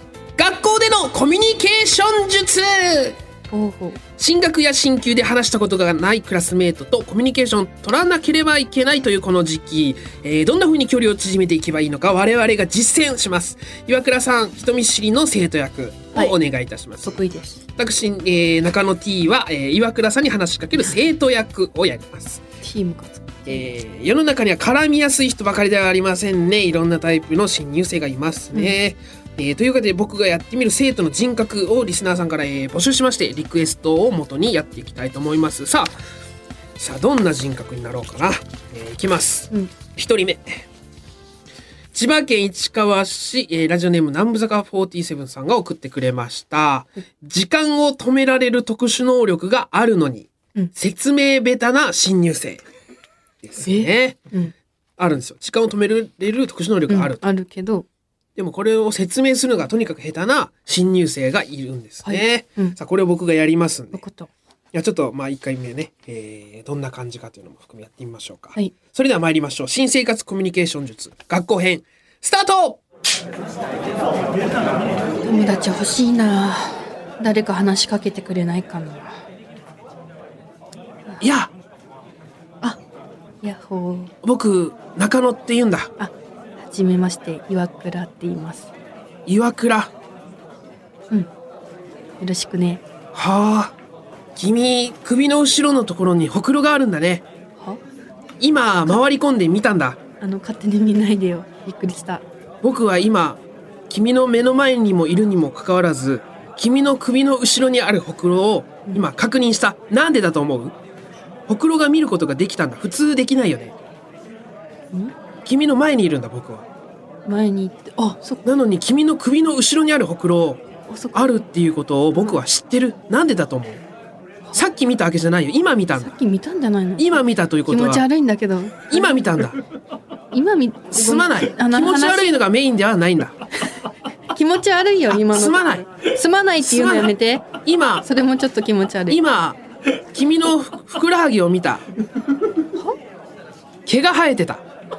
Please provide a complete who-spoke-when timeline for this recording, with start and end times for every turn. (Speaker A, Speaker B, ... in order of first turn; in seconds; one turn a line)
Speaker A: 0.4-3.2
Speaker B: 3.5-4.0
Speaker A: 4.2-17.2
Speaker B: 17.0-17.6
Speaker A: 17.8-22.4
Speaker B: 22.6-23.7
Speaker A: 23.5-35.9
Speaker A: 36.8-40.7
Speaker A: 41.9-52.6
Speaker A: 53.4-54.2
Speaker B: 53.6-54.5
Speaker A: 55.0-57.2
Speaker B: 56.9-57.9
Speaker A: 58.4-64.0
Speaker B: 62.0-62.8
Speaker B: 63.9-64.3
Speaker A: 64.7-72.8
Speaker B: 75.2-79.1
Speaker A: 81.2-81.5
Speaker B: 83.4-84.1
Speaker A: 84.2-85.9
Speaker B: 86.0-88.7
Speaker A: 89.3-89.9
Speaker B: 92.2-92.8
Speaker A: 93.1-93.8
Speaker A: 94.3-97.2
Speaker A: 98.4-100.0
Speaker B: 100.2-102.2
Speaker A: 102.6-110.8
Speaker A: 111.5-113.8
Speaker A: 115.5-116.7
Speaker B: 117.2-118.4
Speaker A: 118.4-120.6
Speaker B: 120.9-121.3
Speaker A: 121.1-123.8
Speaker A: 124.5-126.1
Speaker B: 126.0-129.2
Speaker A: 127.0-128.1
Speaker A: 128.9-129.6
Speaker B: 130.3-132.4
Speaker A: 130.9-133.4
Speaker B: 134.3-137.5
Speaker A: 135.1-135.9
Speaker A: 136.6-138.1
Speaker B: 138.0-139.2
Speaker A: 139.1-141.8
Speaker A: 143.9-144.6